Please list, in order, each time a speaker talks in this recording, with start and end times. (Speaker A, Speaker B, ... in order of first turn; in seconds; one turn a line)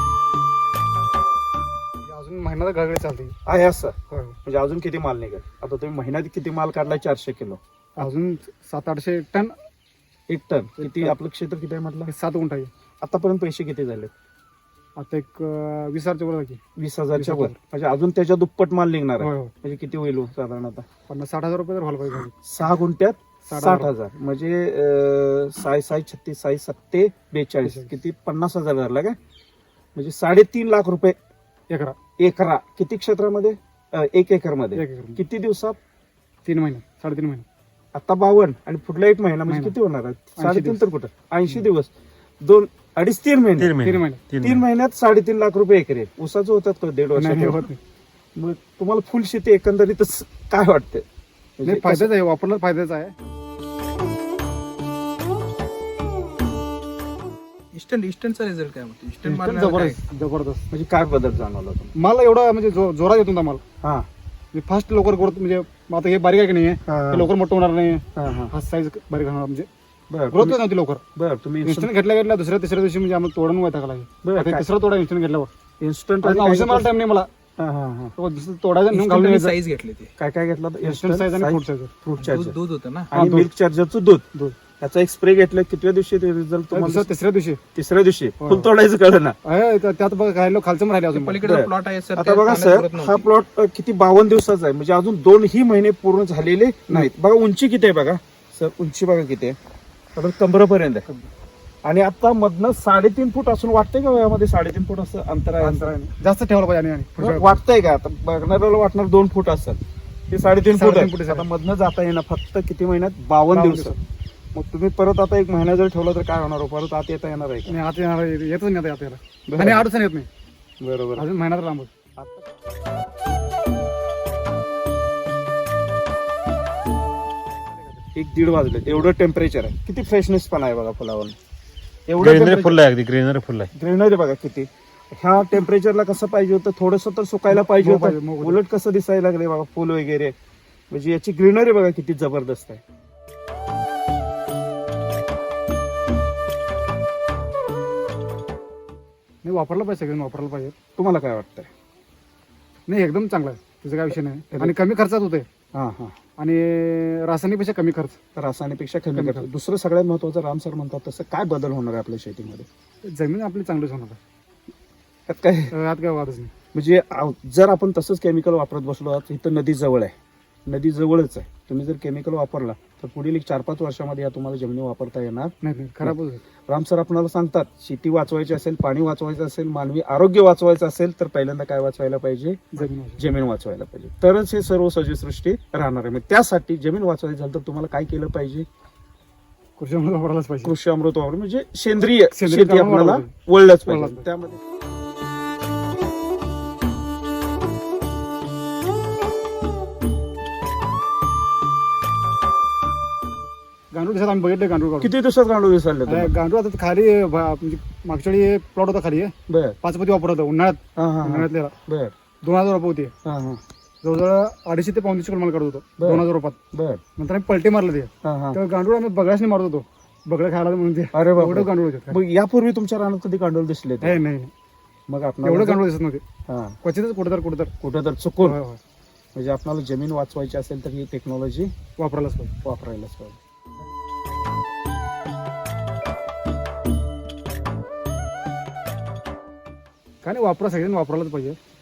Speaker A: 2.1-3.3
Speaker B: 3.5-8.1
Speaker A: 4.1-4.4
Speaker A: 8.0-9.5
Speaker B: 10.3-12.1
Speaker A: 10.8-11.2
Speaker A: 12.1-12.7
Speaker B: 13.0-14.1
Speaker A: 15.0-16.6
Speaker B: 16.8-20.8
Speaker A: 17.2-17.6
Speaker A: 19.2-19.5
Speaker A: 21.1-22.3
Speaker B: 22.4-29.2
Speaker A: 23.5-23.9
Speaker A: 27.7-27.9
Speaker B: 29.9-31.2
Speaker A: 31.7-32.0
Speaker B: 32.2-35.8
Speaker A: 34.8-35.2
Speaker A: 36.5-37.5
Speaker B: 37.9-41.9
Speaker A: 39.5-39.8
Speaker A: 40.4-40.8
Speaker B: 42.4-43.7
Speaker C: 43.6-44.6
Speaker A: 43.8-44.2
Speaker B: 44.4-47.7
Speaker A: 47.2-47.8
Speaker B: 48.4-51.0
Speaker B: 51.6-52.1
Speaker A: 51.7-53.1
Speaker D: 57.7-60.0
Speaker A: 59.2-60.6
Speaker B: 60.7-61.9
Speaker A: 62.0-63.6
Speaker B: 63.8-64.1
Speaker A: 64.5-69.7
Speaker B: 66.9-67.3
Speaker B: 68.2-68.5
Speaker B: 70.1-70.6
Speaker A: 70.3-71.0
Speaker B: 71.2-71.9
Speaker A: 71.6-75.5
Speaker B: 74.2-74.7
Speaker B: 75.8-76.9
Speaker A: 76.2-77.3
Speaker B: 77.6-78.2
Speaker A: 78.2-79.6
Speaker D: 78.9-80.1
Speaker B: 80.2-82.5
Speaker A: 80.8-81.9
Speaker D: 82.2-83.1
Speaker B: 83.1-84.2
Speaker A: 83.1-83.5
Speaker B: 84.8-87.1
Speaker A: 86.7-87.6
Speaker B: 87.8-89.4
Speaker A: 88.4-88.7
Speaker A: 89.4-91.4
Speaker D: 91.1-93.3
Speaker B: 91.4-99.6
Speaker B: 100.2-101.1
Speaker B: 101.8-105.9
Speaker A: 105.6-107.5
Speaker B: 107.2-109.8
Speaker B: 110.3-114.0
Speaker A: 110.7-111.5
Speaker A: 113.5-114.0
Speaker B: 114.5-117.8
Speaker A: 117.7-120.3
Speaker B: 119.5-119.8
Speaker B: 120.8-121.2
Speaker A: 121.2-121.9
Speaker B: 122.2-122.5
Speaker B: 128.2-131.4
Speaker B: 132.1-132.8
Speaker C: 132.2-133.7
Speaker B: 133.7-140.3
Speaker A: 137.5-138.6
Speaker B: 140.9-142.8
Speaker A: 149.4-150.7
Speaker B: 151.0-151.7
Speaker A: 152.9-155.5
Speaker B: 155.7-156.2
Speaker A: 156.4-158.2
Speaker B: 158.3-162.7
Speaker A: 159.2-159.5
Speaker A: 163.1-164.2
Speaker B: 165.3-165.8
Speaker A: 165.7-166.5
Speaker B: 166.7-170.1
Speaker B: 170.7-175.5
Speaker A: 175.6-176.4
Speaker B: 176.7-188.7
Speaker A: 182.8-183.2
Speaker A: 189.8-190.8
Speaker B: 190.7-194.6
Speaker A: 192.3-193.3
Speaker A: 193.9-194.3
Speaker A: 203.9-205.1
Speaker B: 205.0-206.3
Speaker A: 206.1-211.7
Speaker B: 209.5-209.8
Speaker B: 211.0-212.1
Speaker A: 212.4-213.1
Speaker B: 213.2-213.6
Speaker A: 214.0-216.6
Speaker B: 216.0-217.0
Speaker A: 217.2-222.2
Speaker B: 218.2-218.6
Speaker B: 221.1-224.2
Speaker A: 224.0-224.5
Speaker B: 225.1-225.8
Speaker A: 225.4-226.2
Speaker B: 226.5-226.8
Speaker A: 226.8-227.7
Speaker B: 227.8-228.6
Speaker A: 228.4-228.8
Speaker B: 229.4-231.7
Speaker A: 232.0-232.5
Speaker B: 232.6-233.4
Speaker A: 240.2-241.6